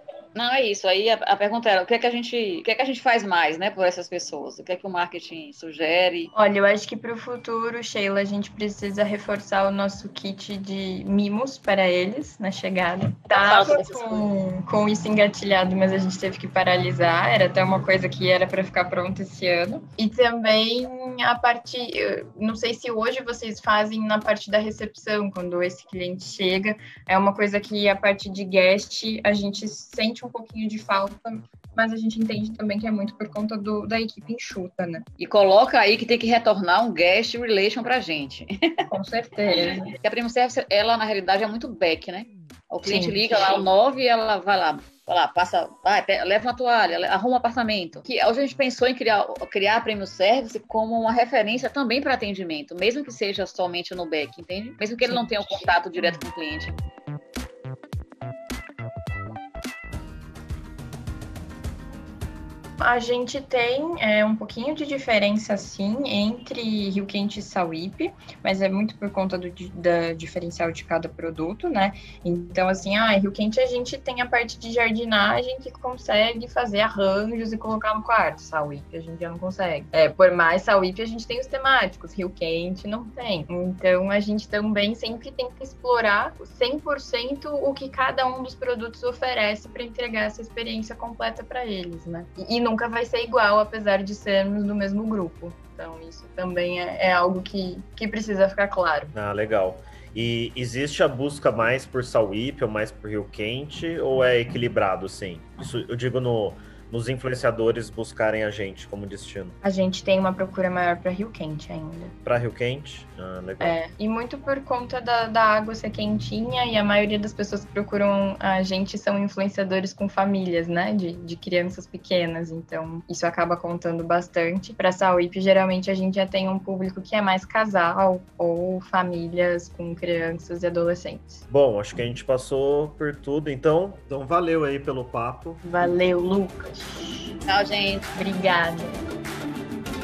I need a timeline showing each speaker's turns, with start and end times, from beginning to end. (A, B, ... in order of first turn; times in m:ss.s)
0:00.4-0:06.3 A
0:06.3-0:35.0 B
0:13.3-0:14.3 A
0:35.2-0:38.8 A
0:38.9-0:39.9 B
0:39.5-0:56.7 A
0:42.8-0:43.2 B
0:55.0-0:56.2 B
1:02.8-1:39.1 B
1:39.1-1:49.6 C
1:49.6-1:52.1 B
1:52.2-1:53.8 C
1:53.6-2:11.4 B
2:11.5-2:15.9 C
2:15.6-2:17.4 B
2:17.5-2:18.1 A
2:18.1-2:19.0 B